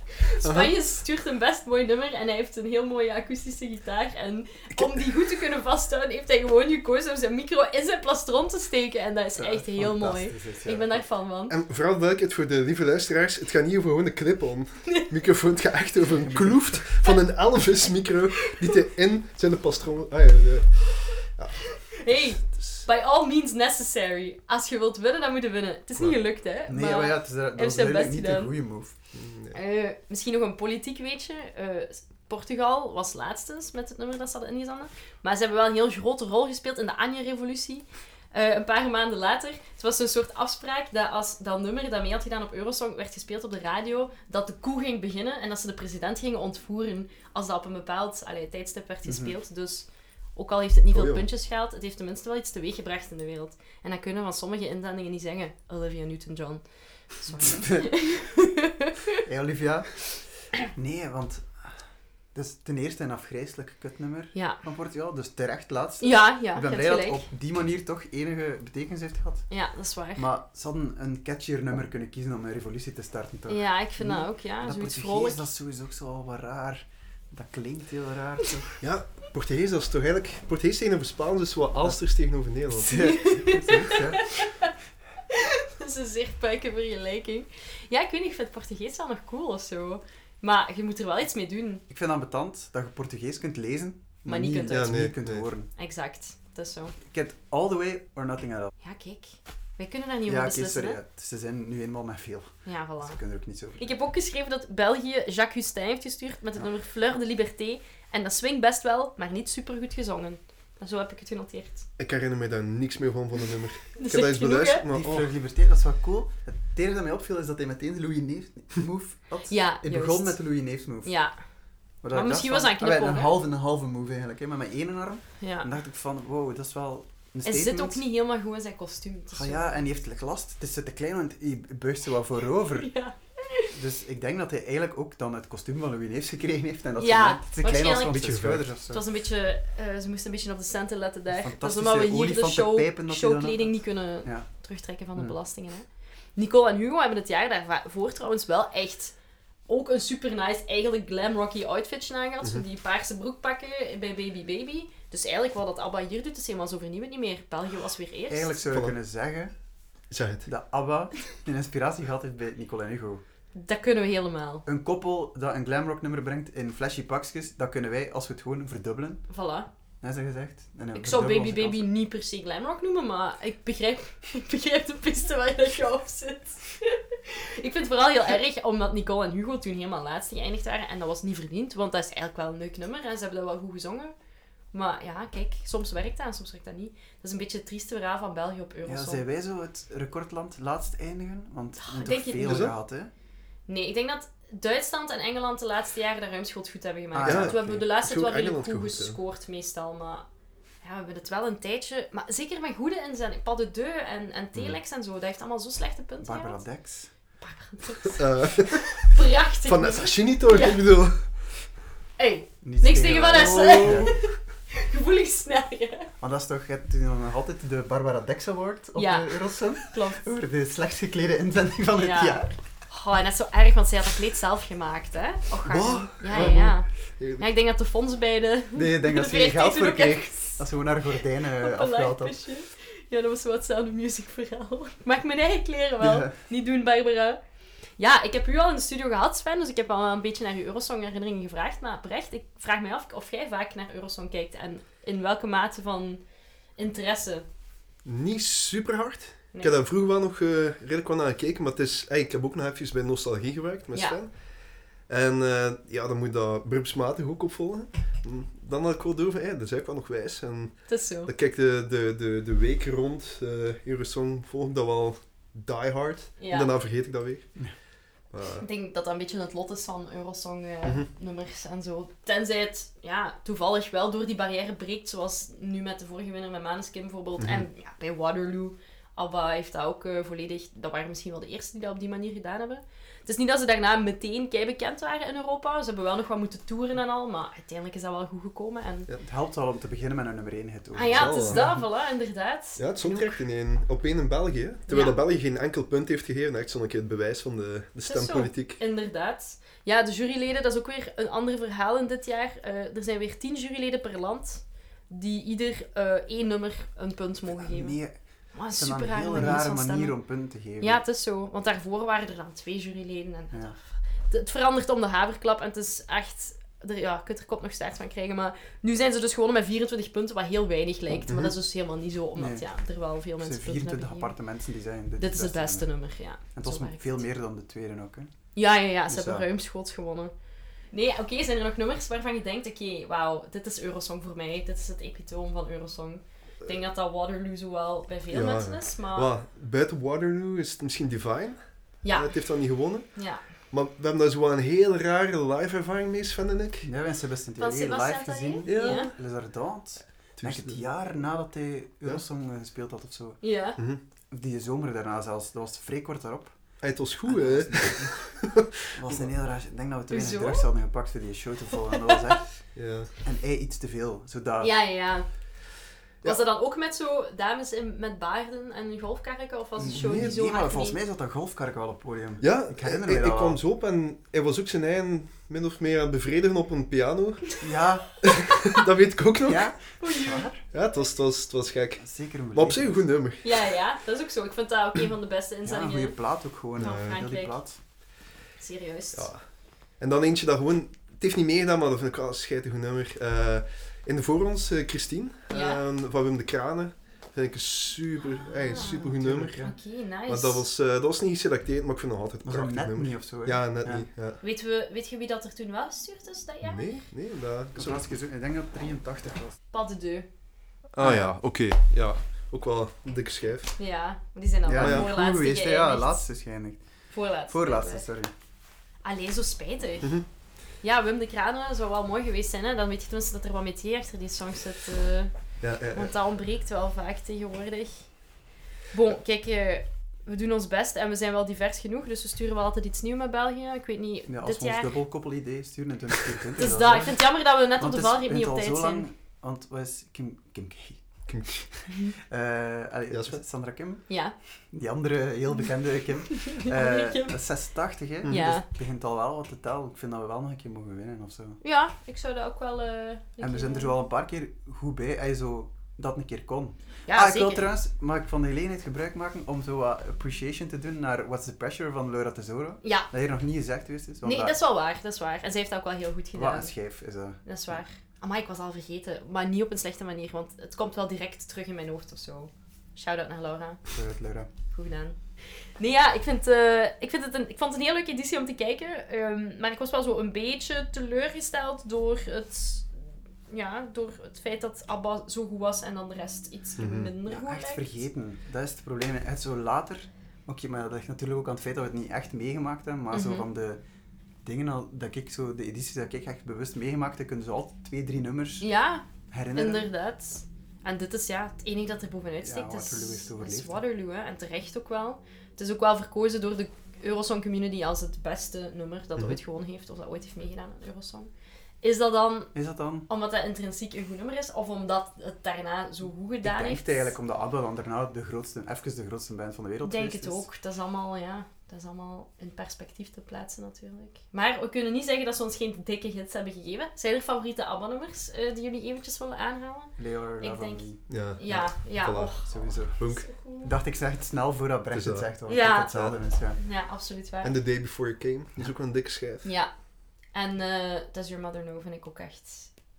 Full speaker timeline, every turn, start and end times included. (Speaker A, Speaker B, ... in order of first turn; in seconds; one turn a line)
Speaker A: 0.2-11.5
Speaker B: 0.4-0.7
Speaker C: 9.4-11.1
Speaker B: 11.5-22.8
Speaker C: 16.1-16.8
Speaker A: 22.0-28.6
Speaker C: 26.6-28.9
Speaker B: 29.1-29.6
Speaker A: 29.5-59.0
Speaker C: 49.0-49.3
Speaker B: 50.9-51.2
Speaker C: 57.4-58.0
Speaker C: 59.2-69.5
Speaker A: 64.3-64.6
Speaker A: 66.0-67.2
Speaker A: 69.5-70.2
Speaker C: 70.1-78.7
Speaker A: 73.5-75.5
Speaker B: 78.8-83.1
Speaker C: 82.7-84.5
Speaker A: 82.9-84.7
Speaker A: 85.8-91.8
Speaker C: 91.9-95.7
Speaker A: 94.2-95.1
Speaker B: 94.7-95.5
Speaker A: 95.8-96.9
Speaker C: 97.0-98.7
Speaker A: 98.8-101.0
Speaker C: 100.2-103.9
Speaker A: 102.6-103.2
Speaker A: 103.8-111.9
Speaker B: 112.0-115.3
Speaker A: 114.0-114.8
Speaker C: 114.9-121.2
Speaker A: 119.5-120.4
Speaker A: 121.0-121.4
Speaker C: 122.0-128.0
Speaker A: 122.1-123.3
Speaker A: 125.4-125.7
Speaker A: 127.4-129.7
Speaker C: 129.3-132.9
Speaker A: 132.8-133.7
Speaker C: 133.7-139.0
Speaker A: 137.0-149.1
Speaker B: 138.1-138.6
Speaker C: 141.3-144.5
Speaker A: 149.7-158.6
Speaker C: 158.3-159.5
Speaker B: 158.7-158.9
Speaker B: 160.1-160.5
Speaker C: 160.4-163.2
Speaker A: 163.5-164.6
Speaker C: 164.6-169.2
Speaker A: 169.3-169.7
Speaker C: 170.0-171.8
Speaker A: 170.9-184.1
Speaker A: 184.7-189.2
Speaker C: 188.8-193.1
Speaker A: 191.8-192.7
Speaker B: 192.4-192.7
Speaker A: 193.7-200.2
Speaker C: 197.1-197.8
Speaker B: 197.2-199.2
Speaker A: 200.8-206.6
Speaker C: 206.2-207.1
Speaker A: 207.4-210.8
Speaker B: 208.2-209.1
Speaker B: 209.6-211.3
Speaker A: 212.2-216.1
Speaker C: 212.6-214.2
Speaker B: 213.4-214.2
Speaker C: 216.2-222.5
Speaker A: 218.9-220.2
Speaker A: 221.9-230.7
Speaker B: 225.7-227.4
Speaker C: 226.3-226.7
Speaker C: 228.7-232.4
Speaker A: 231.4-237.4
Speaker C: 236.0-236.3
Speaker A: 238.0-246.2
Speaker A: 246.8-247.4
Speaker B: 248.0-254.4
Speaker A: 253.9-254.2
Speaker B: 255.0-267.6
Speaker A: 260.9-261.3
Speaker A: 266.4-266.7
Speaker B: 268.3-268.6
Speaker A: 268.6-289.1
Speaker C: 289.1-291.8
Speaker A: 290.9-293.4
Speaker B: 291.1-291.8
Speaker B: 292.8-298.8
Speaker A: 294.9-295.2
Speaker A: 298.0-308.0
Speaker C: 307.5-308.1
Speaker A: 308.5-310.2
Speaker C: 308.8-311.0
Speaker A: 310.8-324.4
Speaker B: 321.3-321.5
Speaker C: 322.4-322.6
Speaker C: 323.4-325.9
Speaker A: 325.2-327.2
Speaker C: 326.5-328.3
Speaker A: 328.5-330.3
Speaker C: 329.1-329.5
Speaker A: 330.9-339.3
Speaker B: 338.3-346.9
Speaker A: 342.0-342.4
Speaker A: 343.1-343.4
Speaker C: 346.8-353.4
Speaker A: 347.6-349.1
Speaker B: 348.6-349.2
Speaker B: 350.4-350.8
Speaker A: 353.4-353.8
Speaker C: 354.3-358.4
Speaker B: 356.8-359.1
Speaker C: 358.9-364.8
Speaker A: 360.1-360.7
Speaker B: 362.7-363.1
Speaker A: 364.6-365.3
Speaker A: 366.2-371.0
Speaker C: 369.8-373.6
Speaker B: 369.9-370.3
Speaker B: 372.4-377.6
Speaker C: 377.6-378.1
Speaker B: 378.2-379.7
Speaker C: 379.4-380.6
Speaker A: 380.0-380.5
Speaker B: 380.7-383.6
Speaker C: 382.0-383.0
Speaker A: 383.4-386.2
Speaker C: 385.6-387.8
Speaker A: 386.7-387.6
Speaker B: 386.8-387.1
Speaker A: 388.6-389.3
Speaker B: 389.1-404.4
Speaker A: 395.5-395.8
Speaker A: 398.6-400.6
Speaker C: 398.7-399.8
Speaker C: 402.4-404.1
Speaker A: 404.4-406.9
Speaker B: 406.6-408.0
Speaker C: 407.7-409.6
Speaker A: 409.7-410.2
Speaker B: 410.9-413.8
Speaker C: 411.0-411.3
Speaker A: 413.8-416.2
Speaker C: 414.6-416.8
Speaker B: 414.8-415.1
Speaker A: 417.1-418.1
Speaker C: 417.4-418.3
Speaker A: 419.0-420.2
Speaker A: 420.8-428.3
Speaker B: 425.6-426.1
Speaker A: 428.9-434.9
Speaker C: 434.3-441.7
Speaker A: 436.6-439.1
Speaker B: 441.3-441.5
Speaker A: 441.9-442.1
Speaker C: 442.2-451.6
Speaker B: 443.1-443.4
Speaker A: 444.1-444.4
Speaker A: 446.3-447.4
Speaker A: 448.2-448.7
Speaker A: 451.6-453.9
Speaker C: 453.4-464.6
Speaker A: 457.1-457.6
Speaker A: 462.8-463.1
Speaker A: 464.2-466.7
Speaker C: 466.3-467.8
Speaker A: 467.4-473.8
Speaker C: 473.9-474.5
Speaker A: 474.7-475.2
Speaker A: 475.8-482.9
Speaker A: 483.5-487.9
Speaker B: 486.8-487.1
Speaker C: 487.2-493.8
Speaker A: 493.1-493.5
Speaker C: 494.4-498.7
Speaker A: 498.6-511.3
Speaker C: 499.3-499.9
Speaker C: 502.4-503.8
Speaker A: 511.8-512.5
Speaker C: 512.5-513.1
Speaker A: 513.1-517.1
Speaker C: 516.4-520.4
Speaker A: 519.8-533.7
Speaker C: 530.0-531.0
Speaker B: 531.1-533.3
Speaker C: 532.4-536.6
Speaker B: 534.9-536.1
Speaker A: 535.5-537.5
Speaker B: 537.4-539.5
Speaker A: 539.4-539.7
Speaker A: 540.3-542.7